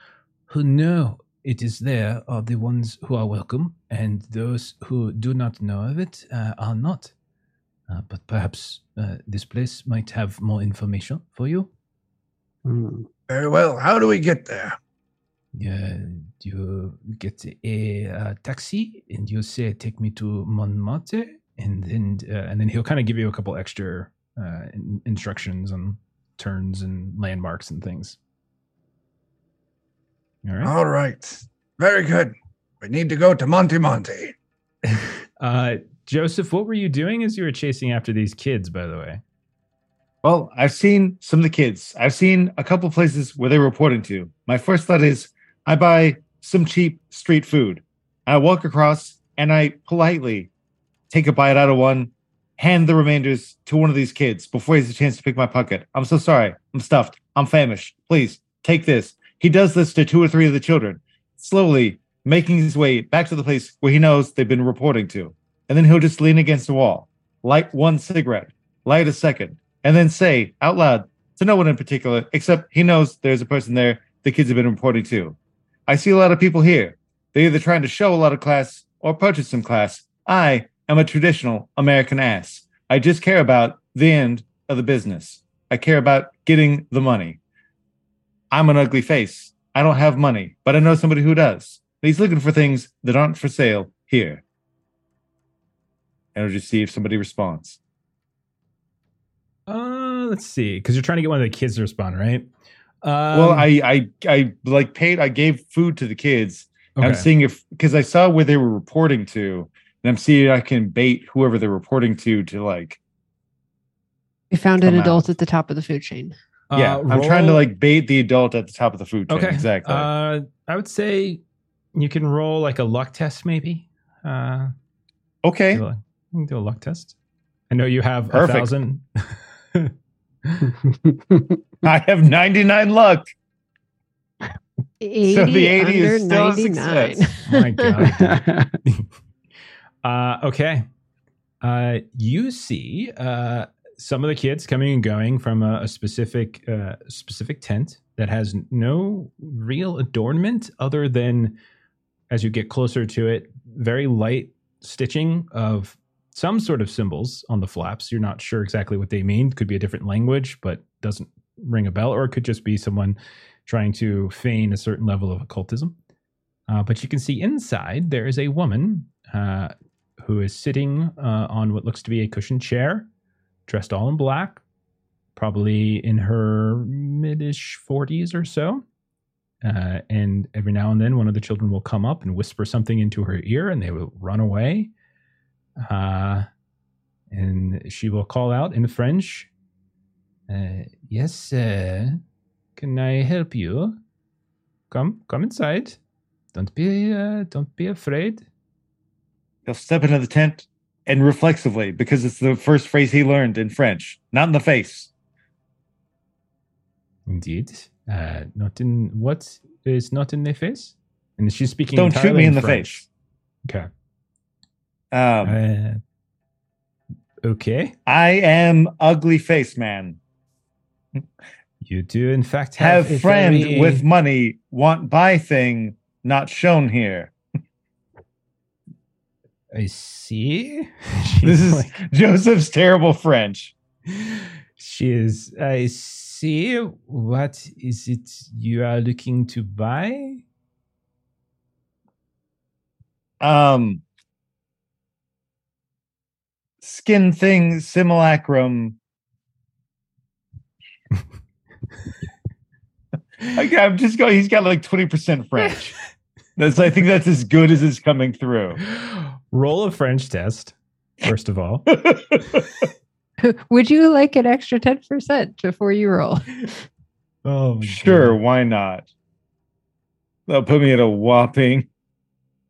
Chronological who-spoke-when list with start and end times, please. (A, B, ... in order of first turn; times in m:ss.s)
0:00.5-0:07.1 A
0:07.9-0:11.7 A
0:12.6-0:13.1 B
0:13.3-0:14.8 C
0:15.5-0:28.2 A
0:30.4-0:30.7 A
0:30.6-0:34.3 C
0:35.4-0:39.2 A
0:40.2-0:50.5 D
0:51.1-1:27.4 D
1:28.5-1:34.4 D
1:36.3-1:37.8 D
1:39.7-1:42.5 A
1:43.0-1:43.7 A
1:43.3-1:53.0 D
1:47.0-1:47.3 A
1:54.5-1:56.3 E
1:54.8-1:55.2 A
1:56.7-1:57.6 A
1:56.7-2:00.1 D
1:59.3-2:01.4 A
2:01.9-2:04.7 A
2:05.4-2:05.8 D
2:05.7-2:07.1 A
2:07.7-2:09.9 A
2:08.3-2:08.7 D
2:10.4-2:10.7 A
2:10.8-2:11.6 B
2:11.8-2:13.3 D
2:15.0-2:17.9 E
2:15.2-2:17.3 D
2:17.4-2:19.0 A
2:18.0-2:18.8 B
2:20.0-2:20.8 A
2:21.6-2:31.6 A
2:32.3-2:45.9 A
2:46.7-2:53.1 A
2:53.7-2:54.6 A
2:55.4-2:58.8 A
2:59.6-3:04.9 A
3:05.8-3:06.5 A
3:07.3-3:09.5 A
3:10.5-3:12.2 A
3:12.8-3:14.0 A
3:14.9-3:16.0 A
3:16.5-3:18.4 A
3:19.6-3:25.1 D
3:27.3-3:33.0 A
3:31.9-3:33.0 D
3:35.1-3:35.6 D
3:35.4-3:36.0 A
3:37.4-3:37.9 A
3:38.0-3:40.2 D
3:41.8-3:44.0 A
3:42.8-3:47.3 D
3:49.7-3:51.9 A
3:51.4-3:53.7 D
3:54.1-4:00.4 A
4:03.4-4:04.0 D
4:06.8-4:09.0 D
4:13.5-4:15.9 D
4:16.6-4:18.8 D
4:18.8-4:21.9 A
4:21.9-4:22.6 D
4:23.4-4:26.8 E
4:27.4-4:28.4 A
4:27.8-4:29.1 D
4:30.5-4:31.9 D